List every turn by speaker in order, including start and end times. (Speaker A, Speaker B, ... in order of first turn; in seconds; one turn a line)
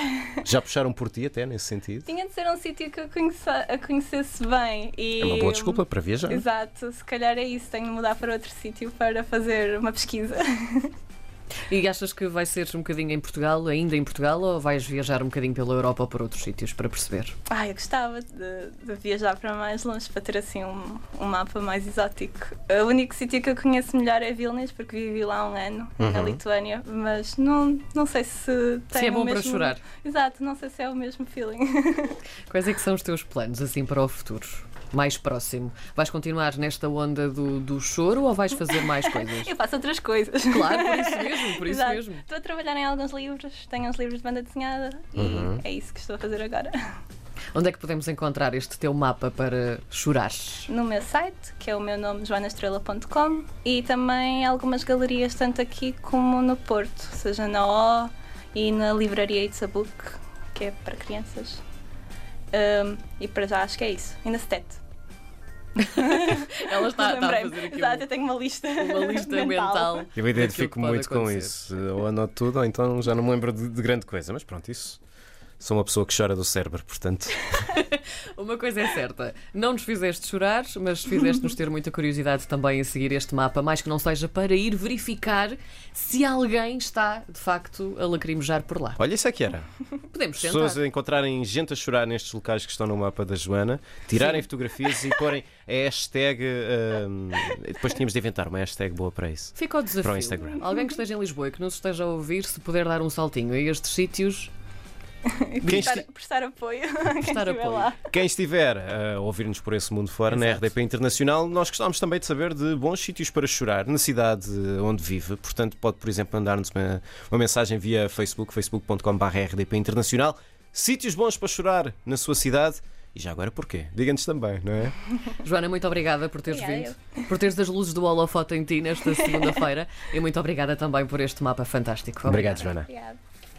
Speaker A: 0.4-2.1
Speaker B: 2.1-10.9
Speaker A: 5.2-6.4
Speaker C: 11.7-17.3
Speaker B: 17.5-32.2
Speaker A: 26.0-26.4
Speaker C: 28.9-29.8
Speaker C: 32.5-39.5
Speaker B: 39.1-46.8
Speaker C: 40.5-42.2
Speaker A: 45.1-45.6
Speaker C: 47.5-50.7
Speaker B: 50.7-61.6
Speaker B: 62.5-64.8
Speaker C: 65.8-68.1
Speaker B: 65.8-70.1
Speaker C: 68.8-71.7
Speaker A: 70.2-75.0
Speaker A: 75.6-77.5
Speaker C: 77.5-89.0
Speaker A: 89.0-89.7
Speaker C: 90.1-90.8
Speaker A: 90.4-100.7
Speaker C: 94.1-94.5
Speaker C: 99.6-104.5
Speaker B: 100.4-101.0
Speaker B: 105.3-108.1
Speaker C: 105.6-106.0
Speaker A: 105.6-106.0
Speaker C: 107.2-107.9
Speaker A: 108.0-125.0
Speaker C: 110.3-110.7
Speaker C: 125.4-132.6
Speaker B: 126.5-127.2
Speaker A: 132.2-132.9
Speaker B: 132.4-133.2